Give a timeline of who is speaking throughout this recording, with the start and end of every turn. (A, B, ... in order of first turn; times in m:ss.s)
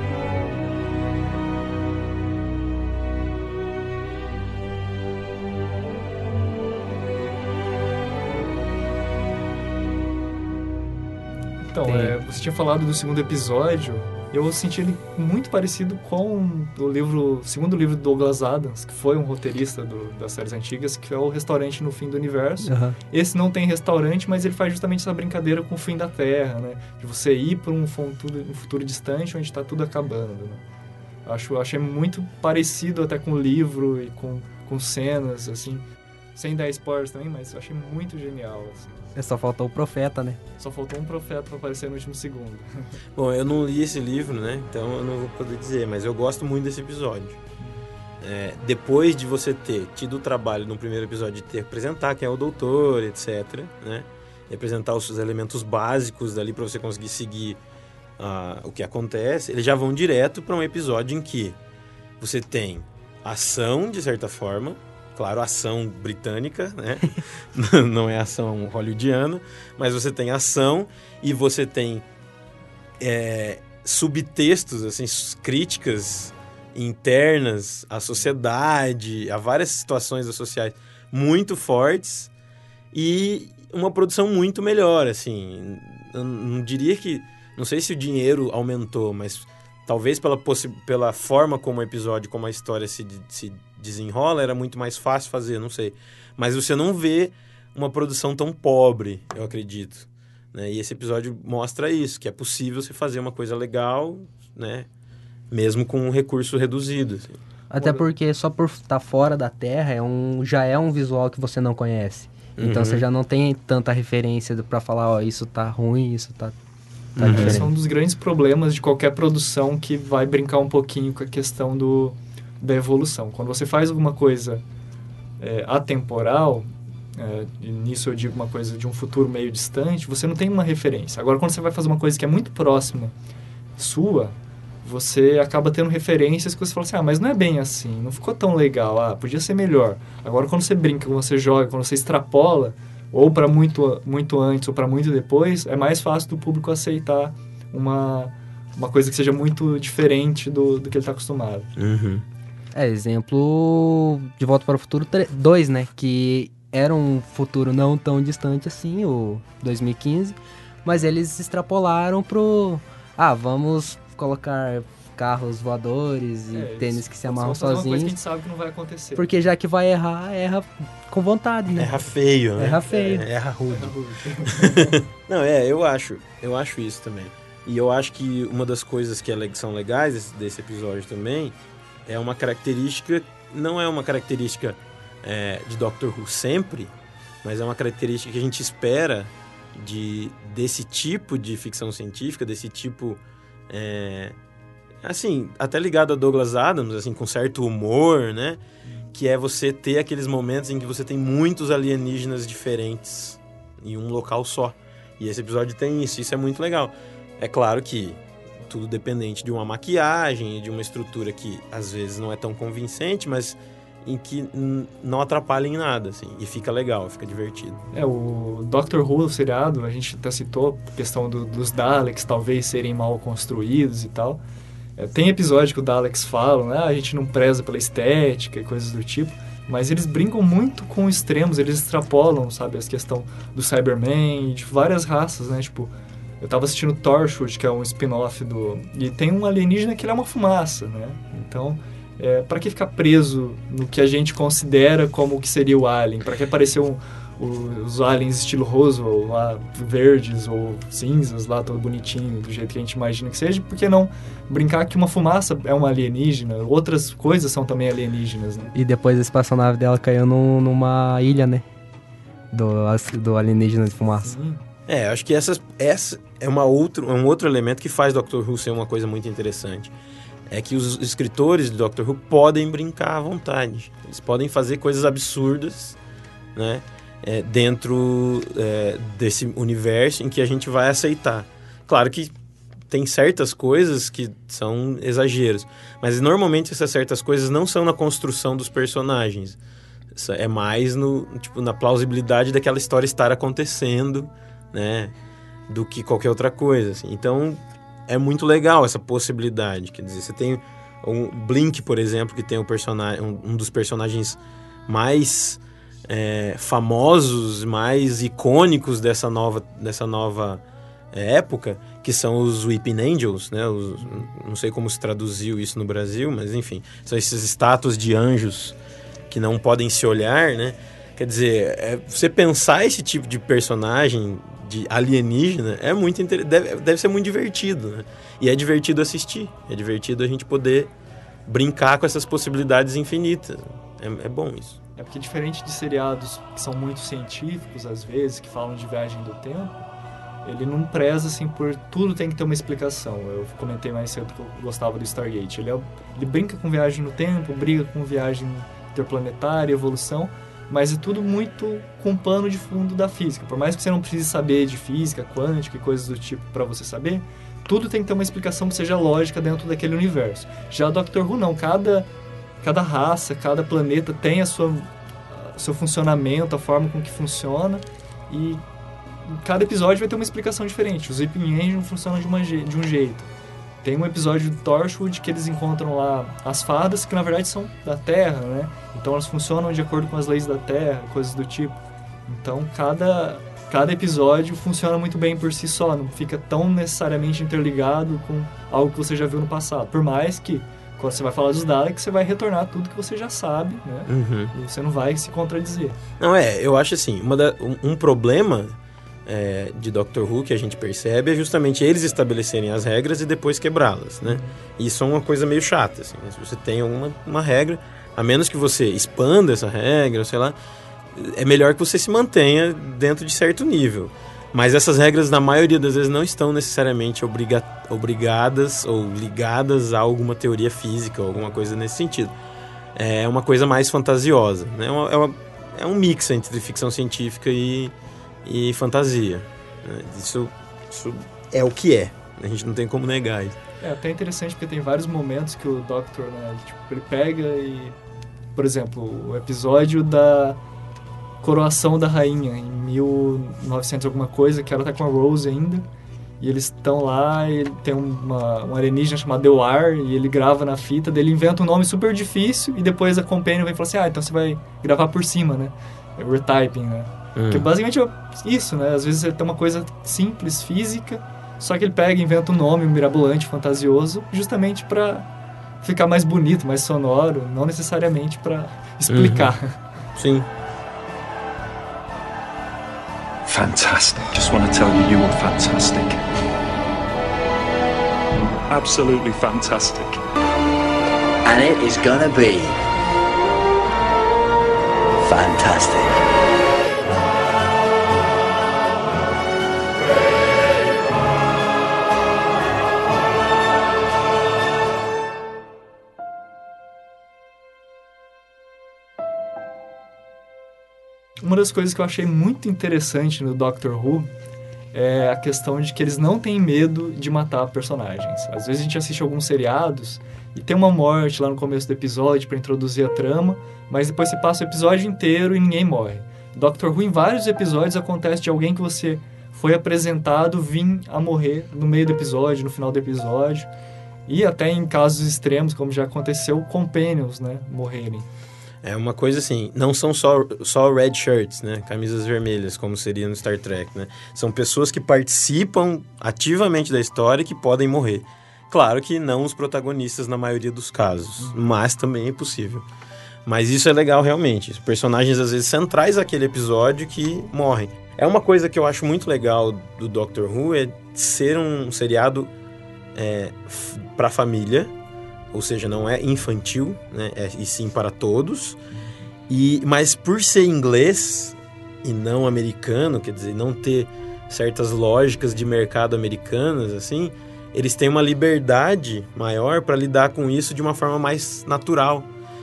0:11.6-0:30.6 A
0:11.8-0:12.2 B
0:22.6-0:23.0 B
0:31.3-0:35.8 A
0:36.4-0:39.0 A
0:39.2-0:40.4 B
0:40.6-0:42.9 A
0:43.2-0:47.4 C
0:47.6-0:47.9 A
0:48.2-0:57.6 C
0:58.2-1:01.6 C
1:02.2-1:12.0 C
1:13.0-1:22.3 C
1:22.9-1:44.9 C
1:45.5-1:47.4 C
1:47.7-1:56.6 B
1:47.8-1:48.1 A
1:52.6-1:53.0 C
1:57.2-1:57.7 B
1:57.2-1:57.7 C
1:57.3-2:04.6 A
2:05.4-2:13.1 A
2:13.8-2:31.7 A
2:31.8-2:32.2 C
2:32.7-2:48.2 B
2:46.5-2:49.3 A
2:49.2-2:53.3 B
2:51.8-2:53.9 C
2:53.7-2:55.0 A
2:54.5-3:01.5 C
3:02.1-3:14.4 C
3:15.0-3:18.6 C
3:19.1-3:37.8 C
3:37.9-3:44.4 A
3:45.0-4:18.7 A
4:18.7-4:21.6 B
4:22.5-4:24.4 B
4:24.2-4:24.6 A
4:24.9-4:29.9 C
4:30.5-4:36.0 C
4:36.6-4:42.3 C
4:42.9-4:49.6 C
4:50.2-4:55.1 C
4:55.7-5:10.6 C
5:11.1-5:18.8 C
5:19.3-5:30.9 C
5:31.5-5:34.8 C
5:35.0-5:39.8 A
5:40.4-6:02.1 A
6:02.6-6:08.6 A
6:09.3-6:13.3 A
6:13.8-6:36.0 A
6:34.1-6:34.5 C
6:36.2-6:50.6 C
6:44.2-6:44.5 A
6:51.2-7:02.3 C
7:01.3-7:01.6 A
7:03.0-7:07.9 C
7:08.4-7:13.6 C
7:13.8-7:18.0 A
7:18.6-7:20.6 A
7:21.4-7:25.8 A
7:26.4-7:45.3 A
7:37.4-7:37.7 C
7:45.8-7:49.8 A
7:49.1-7:49.5 C
7:50.2-7:50.5 C
7:53.5-7:56.1 D
7:59.4-8:00.0 D
8:01.4-8:02.8 E
8:05.2-8:06.1 E
8:21.4-8:24.3 A
8:24.9-8:43.7 A
8:44.3-8:48.3 A
8:48.8-9:02.8 C
9:03.5-9:12.5 C
9:13.2-9:14.9 C
9:15.5-9:18.8 C
9:19.5-9:32.3 C